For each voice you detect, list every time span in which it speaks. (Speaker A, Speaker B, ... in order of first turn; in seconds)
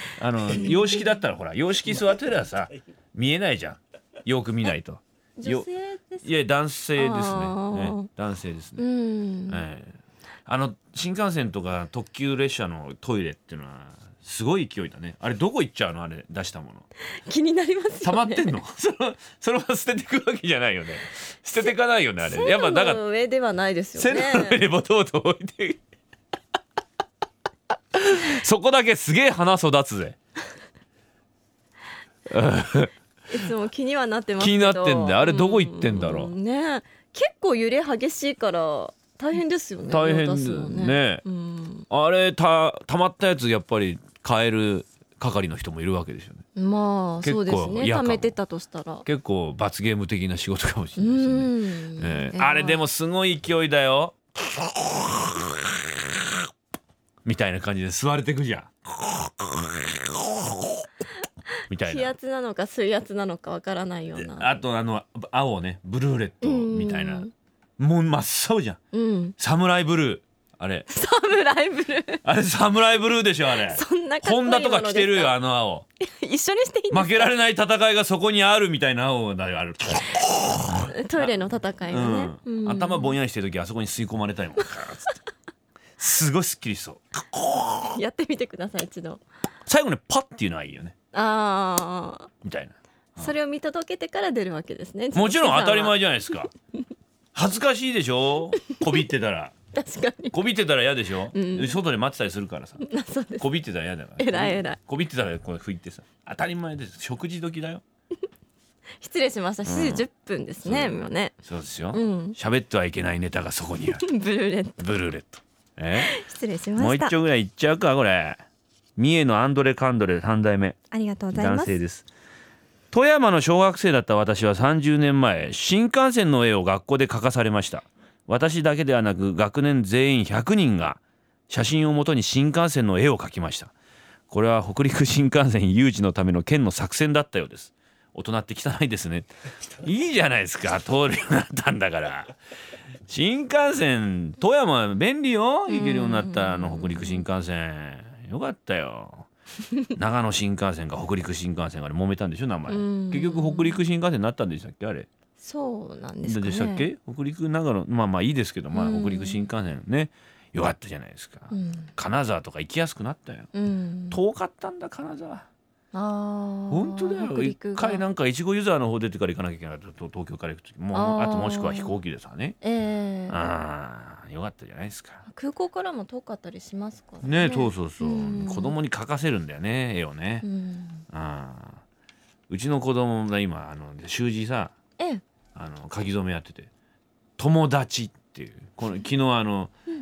Speaker A: 0.1-5.7, 6.2-8.8, 9.5-16.8, 18.0-23.0, 24.0-25.8, 27.9-30.2, 32.3-32.9, 34.4-36.3, 39.9-41.2, 41.9-46.4, 47.2-48.4, 49.0-55.7, 57.2-60.9, 61.7-62.1, 64.1-67.3, 67.8-68.8, 69.4-70.9, 72.2-75.8, 76.9-81.4, 81.9-85.2, 86.0-88.0, 89.7-90.9, 92.4-93.3, 95.1-96.5, 97.3-99.5, 100.3-102.8, 103.4-107.8, 109.6-110.0, 110.6-114.0, 114.8-116.1, 116.8-118.4, 119.0-120.8, 121.3-122.1, 122.9-133.7, 134.3-139.3, 139.8-142.4, 143.1-149.3, 149.9-155.1, 156.2-163.5, 164.1-165.4, 166.7-172.6, 173.3-175.2, 177.2-180.4, 181.1-181.8, 182.5-184.7, 185.5-186.7, 187.4-189.7
Speaker B: 5.4-6.2, 7.0-8.1, 8.8-9.6, 17.2-18.6, 22.2-24.6, 33.3-41.9, 46.5-49.0, 51.0-52.8, 61.7-64.6, 66.4-67.3, 68.9-69.3, 70.9-72.2, 73.5-75.4, 76.0-77.3, 80.9-83.1, 87.9-89.2, 91.1-92.3, 93.2-96.0, 99.7-100.3, 101.3-101.7, 102.8-103.5, 104.2-104.8, 109.0-111.3, 111.9-112.4, 113.8-114.8, 116.0-117.1, 120.9-121.7, 145.7-147.2, 152.7-153.8, 155.4-156.8, 158.7-159.4, 161.5-161.9, 163.5-164.2, 165.9-168.0, 170.9-171.9, 172.6-173.4, 175.2-178.7, 180.4-181.0